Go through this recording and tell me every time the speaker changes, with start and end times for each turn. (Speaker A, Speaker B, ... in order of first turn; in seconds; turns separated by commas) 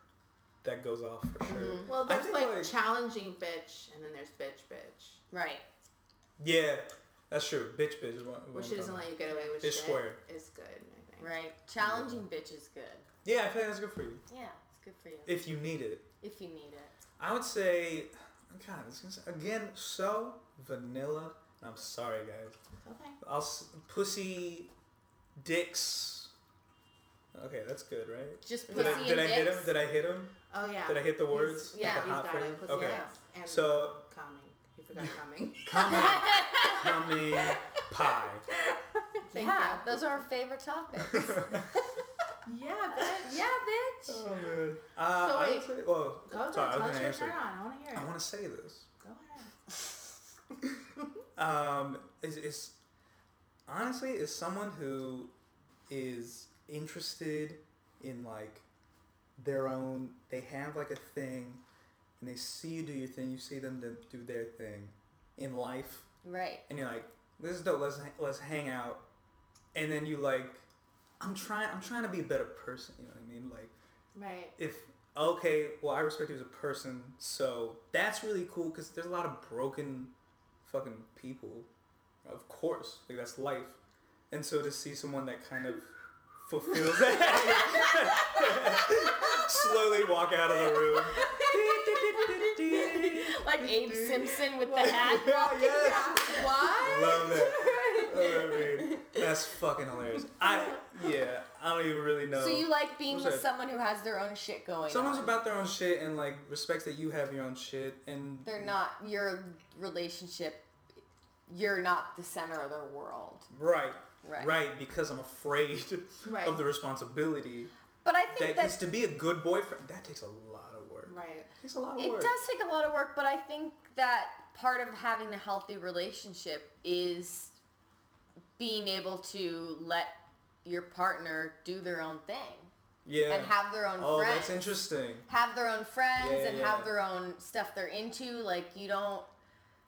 Speaker A: 0.6-2.7, Speaker B: 1.4-1.9, Speaker C: 1.8-5.2, Speaker B: 5.3-5.6, Speaker A: 6.4-10.2, Speaker C: 8.5-11.3, Speaker B: 11.2-13.1, Speaker A: 11.8-12.2, Speaker A: 13.2-14.2, Speaker B: 14.3-15.3, Speaker A: 15.2-16.1, Speaker B: 16.2-16.9, Speaker A: 17.2-22.6, Speaker C: 22.8-23.2, Speaker A: 23.2-24.7, Speaker A: 25.4-26.3, Speaker A: 27.3-34.0, Speaker B: 28.4-29.7, Speaker C: 28.7-29.1, Speaker C: 30.5-37.8, Speaker B: 31.7-32.2, Speaker B: 32.7-33.1, Speaker A: 35.0-38.5, Speaker B: 35.8-36.9, Speaker C: 38.6-40.2, Speaker B: 39.3-41.8, Speaker A: 41.1-41.7, Speaker C: 42.5-43.4, Speaker B: 43.0-44.2, Speaker A: 44.1-47.4, Speaker C: 45.1-45.7, Speaker C: 46.2-48.1, Speaker A: 47.9-48.9, Speaker C: 49.0-49.5, Speaker A: 51.4-52.8, Speaker A: 53.7-55.3, Speaker A: 55.9-58.6, Speaker A: 59.4-61.6, Speaker A: 62.2-66.1, Speaker B: 66.2-66.6, Speaker A: 66.7-69.0, Speaker A: 69.7-70.7, Speaker A: 71.2-73.7, Speaker C: 74.1-74.5, Speaker A: 74.6-80.1, Speaker A: 80.6-81.7, Speaker A: 82.2-83.8, Speaker A: 84.3-103.5, Speaker B: 87.3-89.6, Speaker B: 90.6-99.3, Speaker C: 95.5-98.1, Speaker B: 102.3-105.3, Speaker A: 104.9-108.8, Speaker B: 108.4-110.7, Speaker B: 111.5-113.5, Speaker A: 113.5-117.7, Speaker B: 114.2-114.5, Speaker C: 116.2-116.6, Speaker B: 118.0-118.8, Speaker A: 118.3-122.3, Speaker C: 121.1-121.5, Speaker B: 122.0-127.5, Speaker B: 128.6-130.1, Speaker B: 130.6-132.7, Speaker A: 133.0-135.2, Speaker B: 133.3-134.6, Speaker B: 135.3-139.3, Speaker A: 136.2-136.9